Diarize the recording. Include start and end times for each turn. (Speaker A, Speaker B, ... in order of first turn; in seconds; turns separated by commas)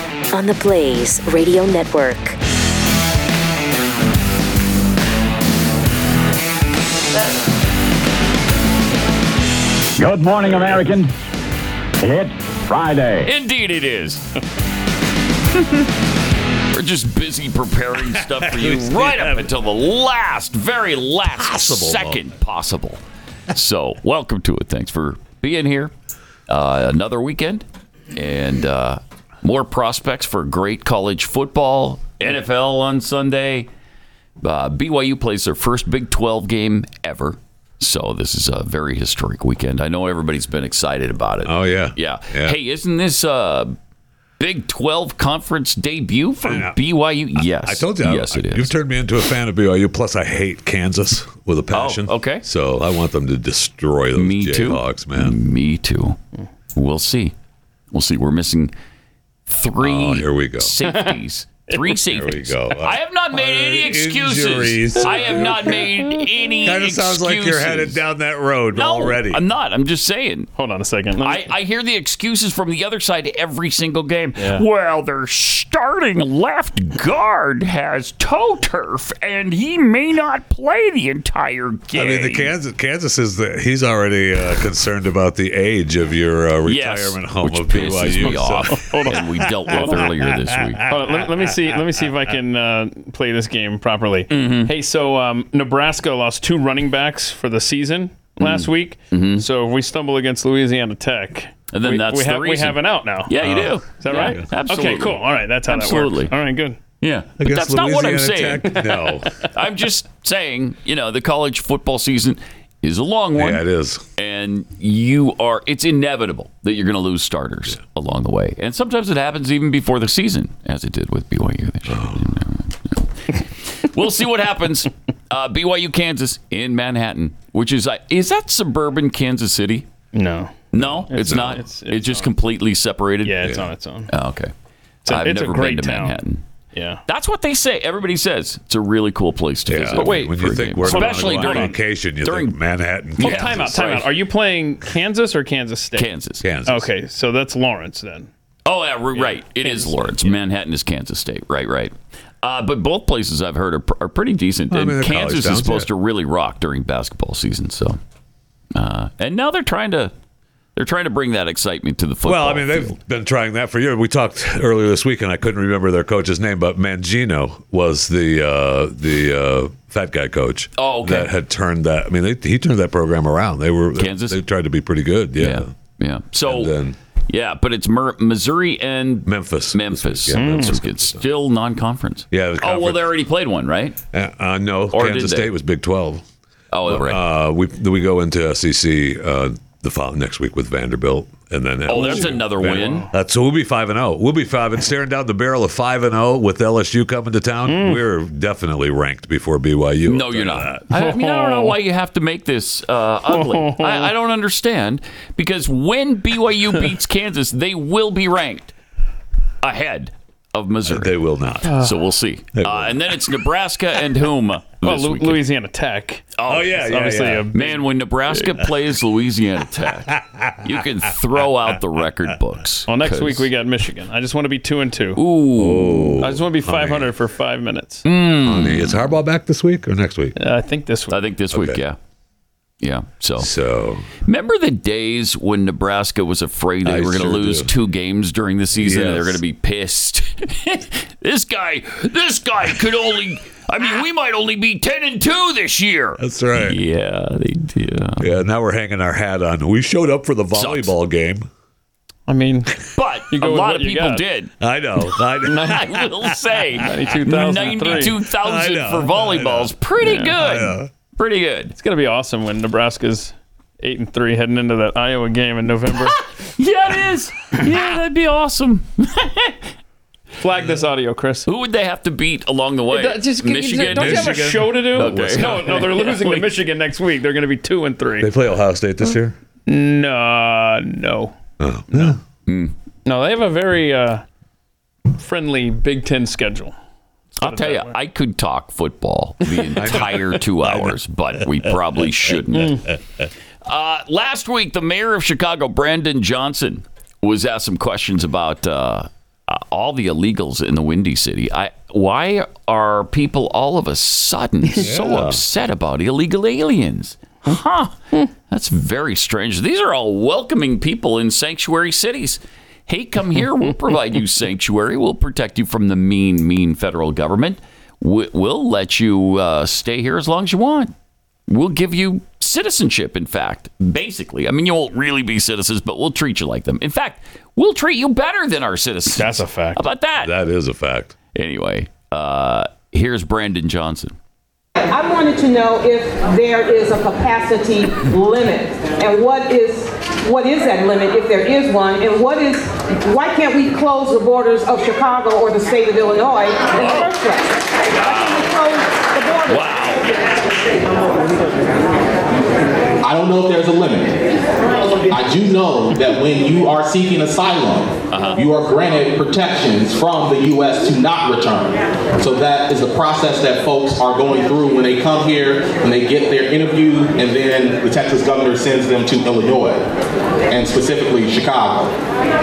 Speaker A: 0.3-2.4, Speaker B: 10.0-11.1, Speaker B: 12.0-13.3, Speaker C: 13.2-14.2, Speaker C: 16.7-23.0, Speaker D: 18.0-19.5, Speaker D: 21.3-22.2, Speaker C: 23.5-25.9, Speaker C: 26.5-33.7, Speaker C: 34.4-43.7, Speaker D: 41.4-42.6, Speaker C: 44.4-48.7, Speaker D: 46.4-46.7, Speaker D: 47.4-55.4, Speaker C: 51.7-52.4, Speaker C: 54.1-56.2, Speaker C: 56.7-57.3, Speaker C: 57.9-58.7, Speaker C: 59.5-68.0, Speaker D: 59.8-60.7, Speaker D: 62.1-65.8, Speaker D: 66.6-69.4, Speaker C: 68.7-70.5, Speaker E: 70.6-71.5, Speaker C: 71.2-82.5, Speaker E: 74.4-74.6, Speaker D: 81.9-91.0, Speaker C: 86.7-90.9, Speaker E: 88.2-90.1, Speaker E: 90.9-103.3, Speaker C: 94.3-94.7, Speaker C: 98.4-99.4, Speaker C: 101.7-106.3, Speaker D: 103.4-103.7, Speaker E: 104.0-106.8, Speaker C: 107.0-108.8, Speaker D: 107.4-109.3, Speaker E: 108.8-109.1, Speaker C: 109.4-113.6, Speaker D: 113.3-114.0, Speaker C: 114.2-123.1, Speaker D: 121.9-122.3, Speaker C: 123.8-129.9, Speaker E: 130.1-132.3, Speaker C: 130.7-133.5, Speaker D: 130.8-131.6, Speaker E: 133.2-134.1, Speaker C: 134.1-134.5, Speaker E: 135.1-136.2, Speaker C: 135.1-136.4, Speaker E: 136.7-137.0, Speaker C: 137.1-142.6, Speaker D: 139.7-144.0, Speaker E: 139.9-141.8, Speaker C: 143.2-144.1, Speaker E: 143.2-146.1, Speaker C: 145.9-146.4, Speaker D: 146.4-146.9, Speaker E: 146.7-148.3, Speaker C: 148.7-158.0, Speaker E: 149.2-150.3, Speaker D: 154.7-155.9, Speaker C: 158.7-160.1, Speaker C: 160.8-163.0, Speaker D: 162.2-175.7, Speaker C: 170.8-171.3, Speaker C: 173.9-174.4, Speaker C: 175.4-176.7, Speaker D: 176.4-176.9, Speaker C: 177.3-184.0, Speaker D: 179.2-181.2, Speaker E: 180.3-180.7, Speaker D: 182.3-183.1, Speaker D: 184.1-186.2, Speaker C: 184.9-185.5, Speaker C: 186.7-187.2, Speaker D: 186.8-200.8, Speaker C: 191.9-193.1, Speaker E: 192.7-193.1, Speaker E: 197.7-198.0, Speaker C: 200.1-208.7, Speaker E: 200.9-201.8, Speaker E: 203.3-204.1, Speaker C: 209.6-211.1, Speaker D: 210.9-211.8, Speaker C: 211.7-215.4, Speaker D: 212.6-213.0, Speaker E: 214.8-217.8, Speaker C: 216.4-216.7, Speaker D: 216.5-217.5, Speaker C: 217.5-223.5, Speaker D: 220.1-220.8, Speaker E: 222.9-225.2, Speaker C: 225.2-226.2, Speaker D: 225.6-227.1, Speaker E: 226.2-228.0, Speaker C: 228.0-229.0, Speaker D: 228.4-230.3, Speaker E: 230.3-231.2, Speaker C: 231.1-232.0, Speaker D: 231.5-231.8, Speaker C: 232.8-233.5, Speaker D: 233.4-234.1, Speaker C: 234.2-248.3, Speaker D: 236.8-237.7, Speaker D: 238.8-239.4, Speaker D: 246.2-246.8, Speaker D: 248.2-251.5, Speaker C: 250.5-250.9, Speaker E: 252.3-254.2, Speaker C: 252.9-254.5, Speaker D: 254.6-256.3, Speaker E: 255.5-255.8, Speaker C: 255.6-261.7, Speaker E: 256.8-258.1, Speaker D: 257.9-260.9, Speaker E: 261.8-266.2, Speaker C: 266.6-269.5, Speaker E: 270.4-271.5, Speaker C: 271.5-276.5, Speaker E: 272.9-278.3, Speaker D: 273.9-275.9, Speaker D: 278.2-279.4, Speaker E: 279.6-281.3, Speaker D: 281.6-282.2, Speaker C: 282.5-282.7, Speaker E: 283.1-284.2, Speaker E: 285.1-286.7, Speaker C: 287.4-292.8, Speaker E: 287.4-287.9, Speaker D: 289.8-291.0, Speaker D: 291.6-292.3, Speaker E: 292.5-292.9, Speaker C: 293.6-307.9, Speaker D: 304.8-305.4, Speaker C: 308.5-320.9, Speaker C: 321.5-330.3, Speaker E: 329.1-329.8, Speaker D: 330.2-331.1, Speaker C: 331.3-334.1, Speaker F: 334.8-349.7, Speaker C: 346.8-347.1, Speaker C: 347.9-348.5, Speaker C: 349.5-350.0, Speaker G: 353.0-354.2, Speaker G: 355.1-369.8, Speaker C: 358.1-358.4, Speaker G: 370.5-371.9